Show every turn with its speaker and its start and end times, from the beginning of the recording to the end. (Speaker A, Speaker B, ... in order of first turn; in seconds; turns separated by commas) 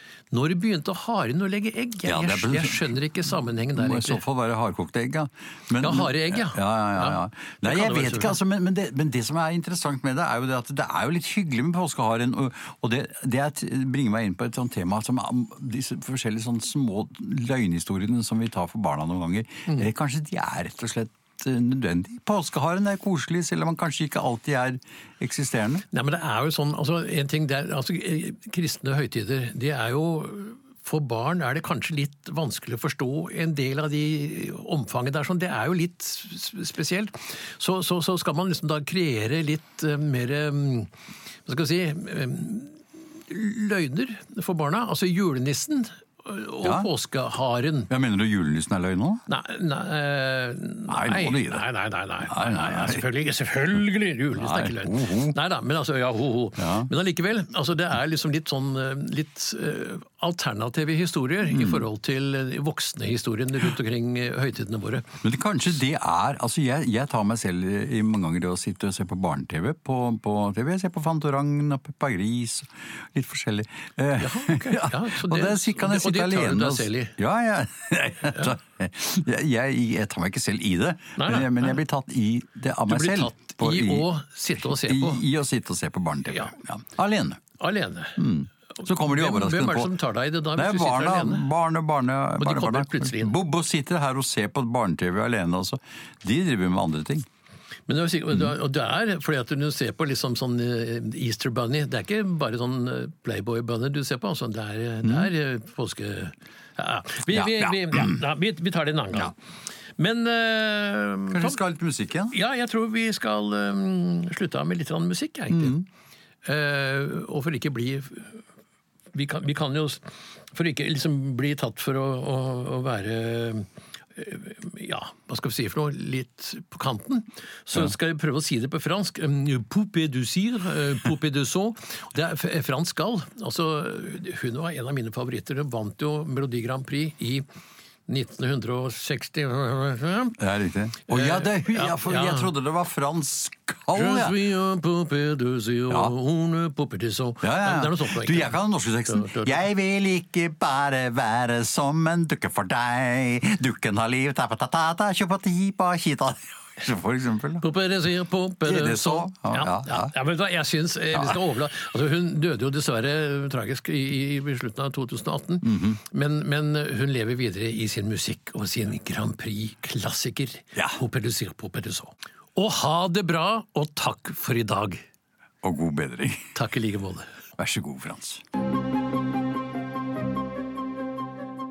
Speaker A: 0.3-4.2, Speaker B: 2.0-3.0, Speaker B: 3.7-25.8, Speaker A: 5.8-8.4, Speaker A: 25.9-40.9, Speaker A: 41.5-47.9, Speaker B: 46.6-46.9, Speaker B: 47.9-49.2, Speaker A: 49.3-65.1, Speaker B: 50.9-51.6, Speaker B: 52.3-53.0, Speaker B: 54.3-55.4, Speaker B: 56.6-56.9, Speaker B: 61.5-61.8, Speaker B: 65.2-84.1, Speaker A: 74.2-77.2, Speaker A: 81.2-81.8, Speaker A: 82.9-85.2, Speaker B: 84.6-87.4, Speaker A: 86.3-86.5, Speaker A: 87.6-88.2, Speaker B: 88.2-89.9, Speaker A: 88.7-91.5, Speaker B: 90.5-97.2, Speaker A: 92.4-93.3, Speaker A: 97.9-109.3, Speaker B: 105.0-105.3, Speaker B: 107.3-108.2, Speaker A: 110.0-111.6, Speaker B: 111.3-112.4, Speaker A: 112.3-115.8, Speaker B: 115.5-115.8, Speaker A: 116.4-118.4, Speaker A: 119.1-137.4, Speaker A: 138.1-140.4, Speaker B: 140.4-144.4, Speaker A: 141.1-142.5, Speaker A: 143.9-148.6, Speaker B: 147.4-157.6, Speaker A: 149.1-149.6, Speaker A: 157.6-175.0, Speaker B: 158.6-160.1, Speaker B: 161.1-161.4, Speaker B: 165.6-166.0, Speaker B: 170.7-171.0, Speaker B: 175.6-176.5, Speaker A: 176.5-177.3, Speaker B: 177.6-178.4